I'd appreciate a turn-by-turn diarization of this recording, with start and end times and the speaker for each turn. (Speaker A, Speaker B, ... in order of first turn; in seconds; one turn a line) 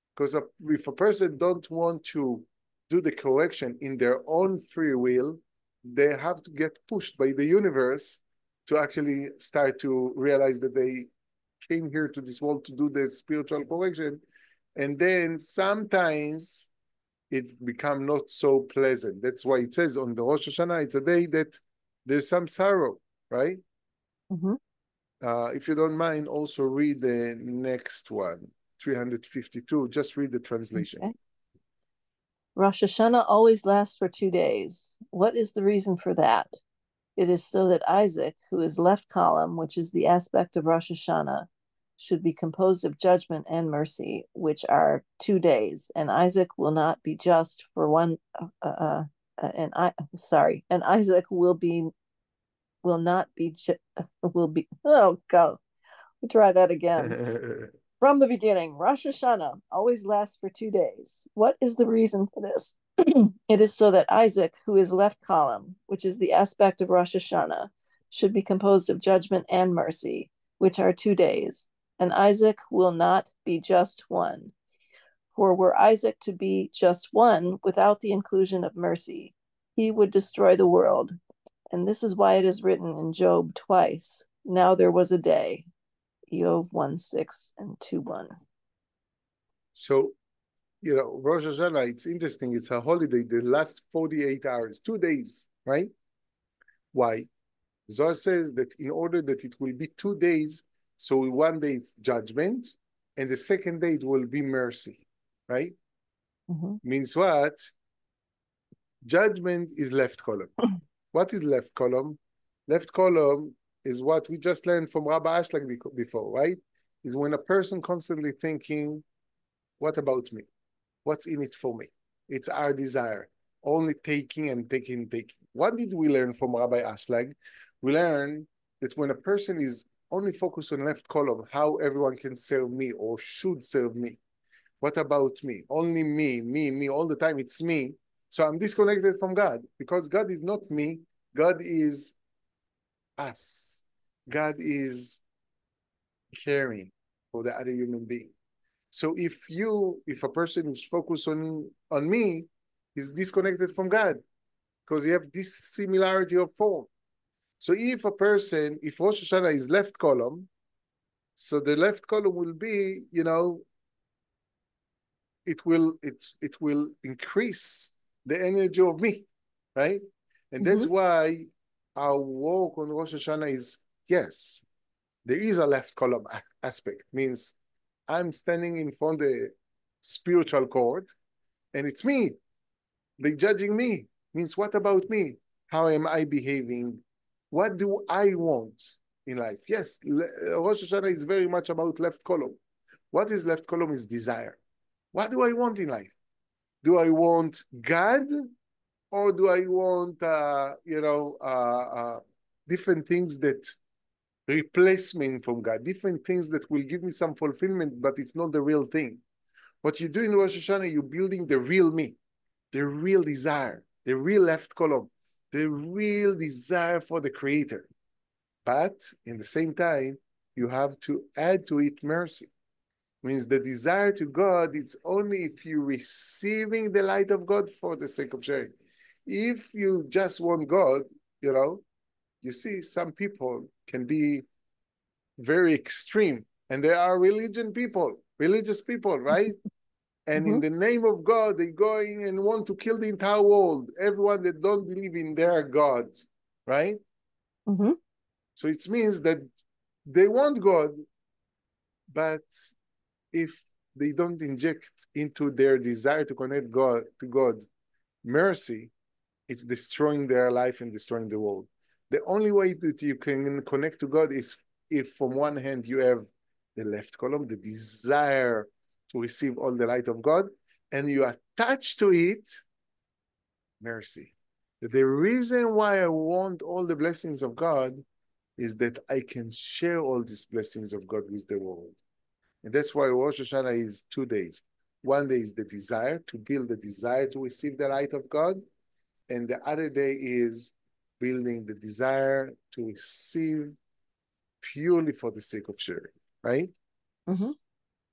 Speaker A: 0.2-11.1
Speaker A: 11.6-14.2
Speaker A: 14.8-16.7
Speaker A: 17.3-23.6
Speaker B: 24.3-24.6
Speaker A: 25.2-31.1
Speaker B: 30.8-31.1
Speaker B: 32.6-36.5
Speaker B: 37.2-51.9
Speaker B: 52.8-55.6
Speaker B: 56.2-57.2
Speaker A: 57.0-57.7
Speaker B: 58.0-74.5
Speaker B: 75.3-81.2
Speaker B: 81.7-85.7
Speaker B: 86.3-88.3
Speaker A: 89.7-90.2
Speaker A: 90.8-95.9
Speaker A: 96.9-97.3
Speaker A: 97.9-105.8
Speaker B: 106.5-106.8
Speaker A: 106.8-107.7
Speaker A: 109.0-110.5
Speaker A: 111.1-119.0
Speaker A: 119.8-120.5
Speaker A: 121.0-134.2
Speaker A: 134.8-142.2
Speaker A: 143.2-145.2
Speaker A: 146.3-148.3
Speaker A: 148.9-154.2
Speaker A: 154.9-156.9
Speaker A: 157.6-160.5
Speaker A: 161.4-163.7
Speaker A: 165.5-174.6
Speaker B: 170.6-170.9
Speaker A: 175.3-177.6
Speaker A: 178.1-181.1
Speaker A: 181.7-182.4
Speaker A: 183.2-192.6
Speaker A: 193.1-194.6
Speaker A: 195.1-196.2
Speaker A: 196.8-198.5
Speaker A: 199.1-203.8
Speaker A: 204.5-209.2
Speaker A: 209.8-212.2
Speaker A: 212.7-217.9
Speaker A: 218.7-222.5
Speaker A: 223.2-228.7
Speaker A: 229.3-231.8
Speaker A: 232.4-234.5
Speaker A: 235.4-239.6
Speaker A: 240.3-247.0
Speaker B: 240.4-240.6
Speaker B: 247.7-248.0
Speaker A: 248.6-249.4
Speaker A: 250.1-251.0
Speaker A: 252.1-252.7
Speaker A: 253.3-257.6
Speaker A: 258.2-258.9
Speaker A: 259.5-272.6
Speaker A: 273.8-278.0
Speaker A: 278.6-282.0
Speaker A: 282.6-288.6
Speaker A: 289.3-293.8
Speaker A: 294.6-296.7
Speaker B: 297.3-297.5